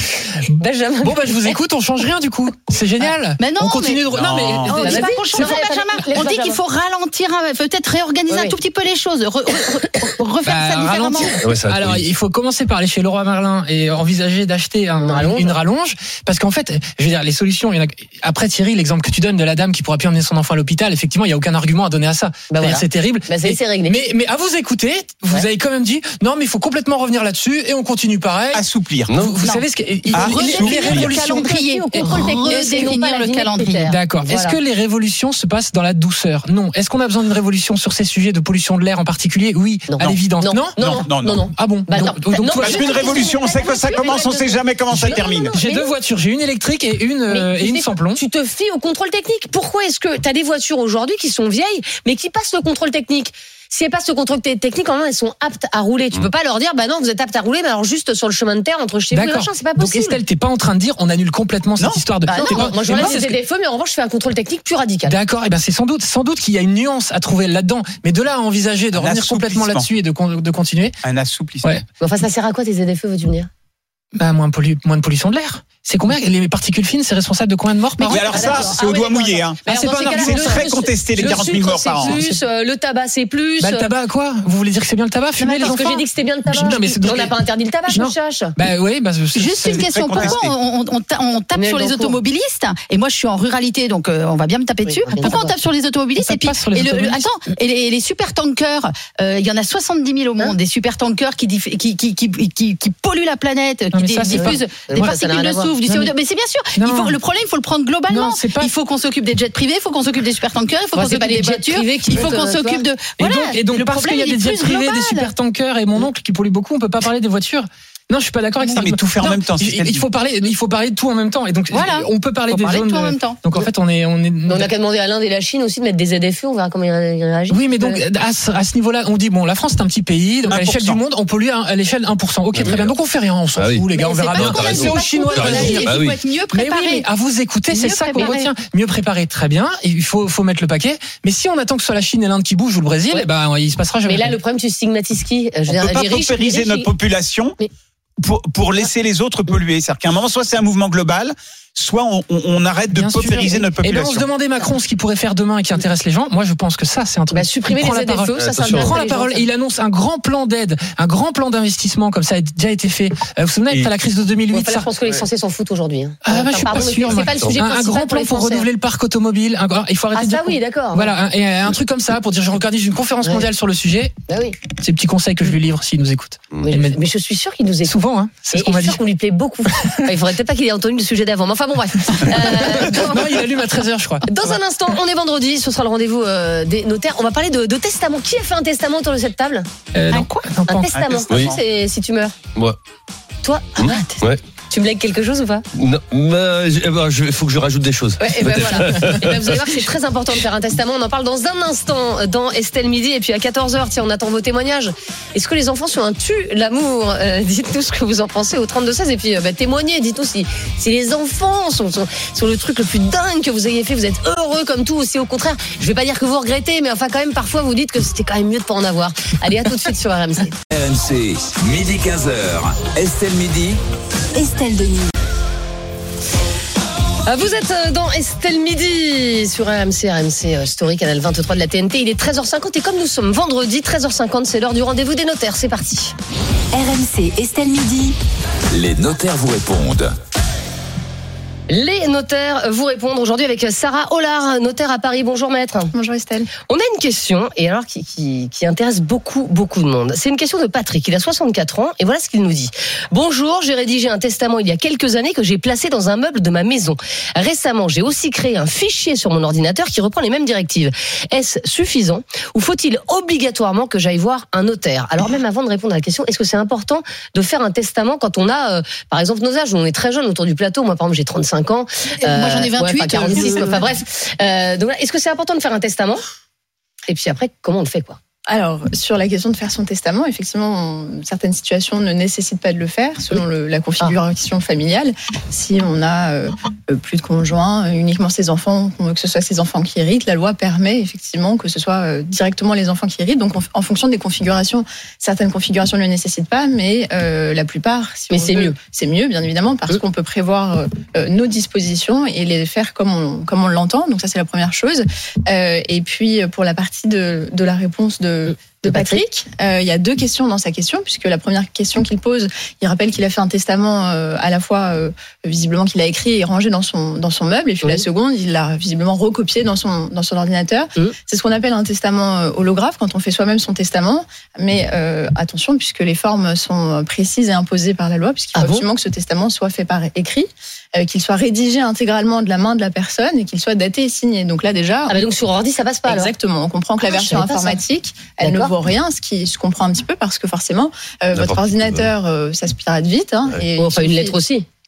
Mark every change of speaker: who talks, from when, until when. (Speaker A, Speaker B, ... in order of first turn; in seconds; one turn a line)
Speaker A: 0.6-1.6
Speaker B: 1.0-5.4
Speaker C: 3.4-4.1
Speaker D: 4.1-5.0
Speaker C: 4.7-11.4
Speaker A: 4.7-6.6
Speaker A: 8.3-8.6
Speaker B: 10.4-28.6
Speaker E: 11.4-12.0
Speaker A: 15.0-15.6
Speaker A: 22.5-24.0
Speaker D: 28.5-29.1
Speaker E: 29.1-29.4
Speaker B: 29.2-33.0
Speaker C: 29.4-34.0
Speaker D: 30.1-31.1
Speaker A: 30.3-34.6
Speaker B: 33.9-40.8
Speaker A: 39.9-45.9
Speaker D: 40.8-41.5
Speaker B: 41.5-43.1
Speaker D: 42.6-45.5
Speaker C: 42.6-44.2
Speaker B: 45.5-48.2
Speaker A: 47.3-60.2
Speaker B: 59.1-63.4
Speaker A: 62.3-65.2
Speaker C: 62.3-63.0
Speaker B: 65.1-71.0
Speaker D: 68.9-69.9
Speaker D: 71.0-71.8
Speaker A: 72.0-73.5
Speaker B: 74.2-78.5
Speaker C: 78.0-78.7
Speaker D: 78.1-82.2
Speaker A: 78.2-83.9
Speaker B: 79.7-80.7
Speaker B: 82.0-82.4
Speaker B: 83.6-87.3
Speaker C: 85.4-85.7
Speaker A: 85.5-88.5
Speaker B: 87.9-90.3
Speaker C: 89.3-115.3
Speaker D: 89.6-90.5
Speaker A: 91.5-92.2
Speaker A: 94.8-95.5
Speaker B: 95.1-95.5
Speaker B: 96.2-97.3
Speaker B: 103.9-104.6
Speaker A: 104.3-105.7
Speaker B: 105.8-106.1
Speaker B: 106.8-107.2
Speaker B: 108.1-108.7
Speaker A: 110.9-112.8
Speaker B: 112.1-112.4
Speaker B: 113.2-124.7
Speaker C: 118.6-118.9
Speaker D: 118.7-120.0
Speaker C: 121.7-123.4
Speaker A: 124.5-128.0
Speaker B: 127.5-135.9
Speaker D: 130.5-131.0
Speaker E: 132.5-132.9
Speaker E: 133.6-136.2
Speaker C: 133.9-137.1
Speaker B: 136.5-144.4
Speaker C: 137.7-138.5
Speaker A: 144.1-146.9
Speaker D: 145.7-147.6
Speaker D: 148.2-154.3
Speaker B: 152.9-164.9
Speaker A: 157.3-159.4
Speaker E: 158.4-158.9
Speaker A: 164.5-168.7
Speaker B: 166.2-174.1
Speaker A: 170.1-171.1
Speaker A: 174.3-174.6
Speaker B: 174.8-177.0
Speaker A: 176.6-178.0
Speaker B: 177.9-179.0
Speaker A: 178.5-183.2
Speaker B: 179.7-180.0
Speaker B: 182.1-184.6
Speaker A: 184.3-189.7
Speaker B: 189.9-190.9
Speaker C: 190.1-190.4
Speaker A: 190.7-192.3
Speaker D: 190.9-191.6
Speaker E: 191.3-191.6
Speaker A: 193.4-193.9
Speaker E: 193.8-194.4
Speaker C: 193.9-194.2
Speaker A: 194.7-195.7
Speaker E: 195.7-199.6
Speaker A: 198.2-220.6
Speaker F: 220.7-223.8
Speaker G: 224.3-225.1
Speaker A: 227.3-236.1
Speaker G: 236.7-238.2
Speaker F: 238.7-240.1
Speaker A: 241.7-245.9
Speaker H: 245.9-246.5
Speaker A: 246.7-276.2
Speaker C: 272.2-273.9
Speaker A: 277.1-278.2
Speaker H: 278.5-335.2
Speaker A: 298.3-298.8
Speaker A: 308.8-309.2
Speaker A: 328.6-328.9
Speaker A: 335.1-336.3
Speaker H: 336.1-344.4
Speaker A: 337.0-337.8
Speaker A: 338.4-338.7
Speaker E: 341.3-342.1
Speaker A: 343.8-344.6